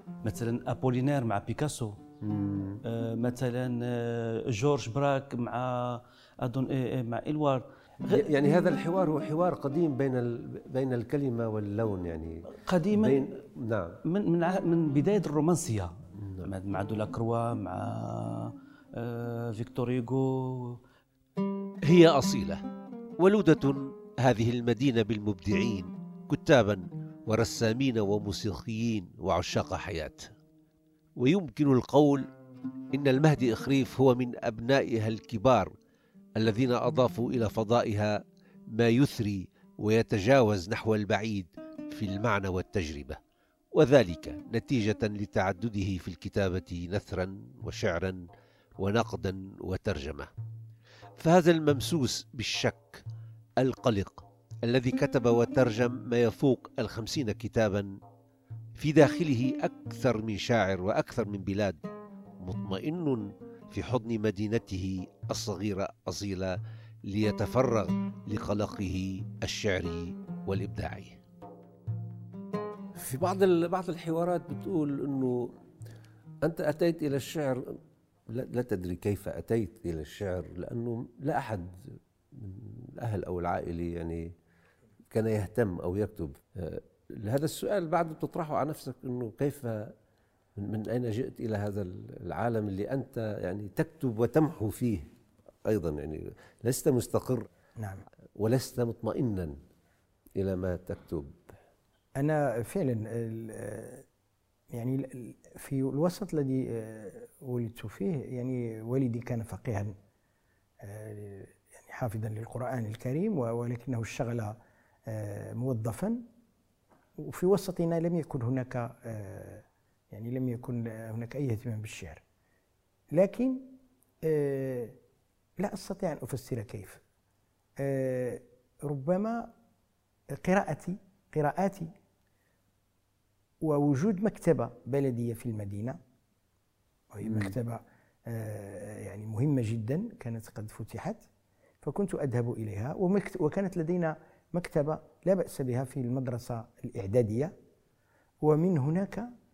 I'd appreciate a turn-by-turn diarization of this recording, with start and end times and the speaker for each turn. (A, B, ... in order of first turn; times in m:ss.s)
0:00.2-0:02.0 A
0:02.2-0:02.8 B
0:02.8-0:08.3 A
0:08.0-0:14.0 B
0:12.6-0:13.3 A
0:14.0-0:15.9 A
0:16.2-0:16.5 B
0:16.4-0:20.8 A
0:21.8-0:22.6 B
0:23.2-0:30.3 B
0:31.2-0:32.2 B
0:32.9-0:35.7 B
0:36.4-0:38.1 B
0:38.8-0:43.2 B
0:43.7-0:48.2 B
0:48.8-0:50.3 B
0:51.2-0:53.0 B
0:53.6-0:57.9 B
0:58.8-1:01.8 B
1:02.4-1:06.6 B
1:07.1-1:11.2 B
1:13.0-1:15.5 B
1:16.4-1:17.6 B
1:18.3-1:24.2 B
1:25.1-1:29.9 B
1:30.6-1:35.1 B
1:35.6-1:37.5 B
1:37.8-1:38.0 C
1:38.4-1:39.6 B
1:40.4-1:41.3 B
1:42.2-1:44.0 C
1:44.7-1:49.9 C
1:50.8-1:54.6 C
1:55.1-1:56.2 C
1:57.2-2:02.2 C
2:03.1-2:03.7 C
2:04.2-2:04.9 C
2:05.6-2:07.0 C
2:07.8-2:09.5 C
2:10.4-2:11.9 C
2:13.6-2:16.0 C
2:17.1-2:21.2 C
2:17.2-2:17.5 B
2:21.8-2:27.5 C
2:28.4-2:29.3 C